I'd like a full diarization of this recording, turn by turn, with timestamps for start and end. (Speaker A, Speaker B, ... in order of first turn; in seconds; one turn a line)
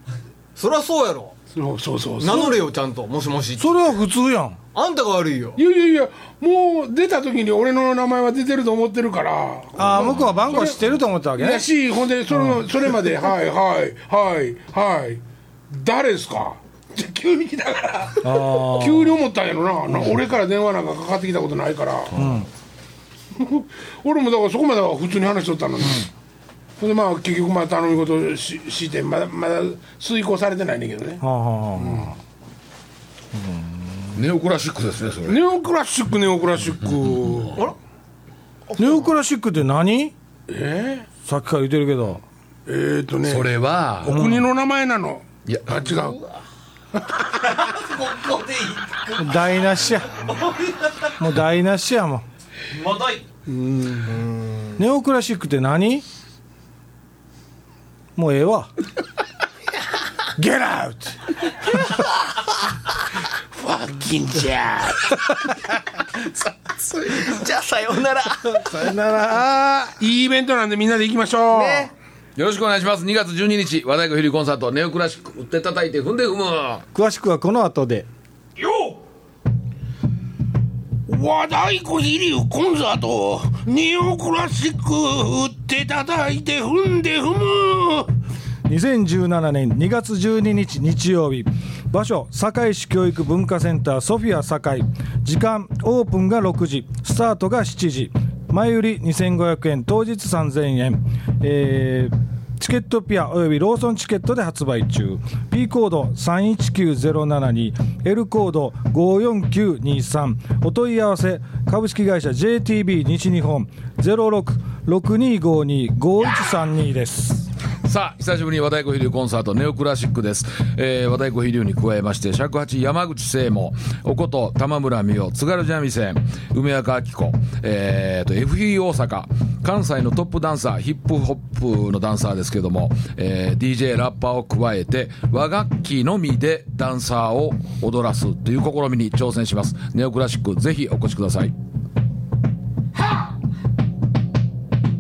Speaker A: 0.6-1.4
Speaker B: 1.6-2.6
Speaker A: 2.2-3.9
Speaker C: 3.6-4.6
Speaker A: 4.7-5.6
Speaker B: 5.6-22.2
Speaker C: 9.8-11.7
Speaker C: 12.3-12.6
Speaker C: 18.2-19.2
Speaker D: 22.1-22.4
Speaker C: 22.1-22.5
Speaker B: 23.4-26.1
Speaker B: 26.8-31.2
Speaker C: 31.2-32.1
Speaker B: 31.8-32.2
Speaker C: 33.3-34.0
Speaker D: 34.1-35.4
Speaker B: 35.3-37.7
Speaker A: 38.7-39.1
Speaker C: 38.8-40.1
Speaker B: 40.5-41.1
Speaker C: 41.2-42.2
Speaker B: 42.7-46.2
Speaker D: 43.3-44.2
Speaker C: 44.1-44.5
Speaker D: 45.5-46.1
Speaker B: 47.1-47.5
Speaker E: 47.4-51.2
Speaker C: 49.2-50.3
Speaker C: 51.2-52.2
Speaker E: 52.7-53.3
Speaker A: 53.7-54.8
Speaker C: 54.8-56.0
Speaker C: 58.2-58.7
Speaker C: 60.4-61.3
Speaker B: 63.5-65.2
Speaker A: 66.8-68.9
Speaker C: 68.5-70.0
Speaker B: 70.0-71.9
Speaker A: 71.5-71.9
Speaker D: 72.4-76.8
Speaker C: 77.0-78.1
Speaker B: 78.6-79.0
Speaker B: 81.1-88.1
Speaker C: 88.7-117.5
Speaker D: 117.8-141.5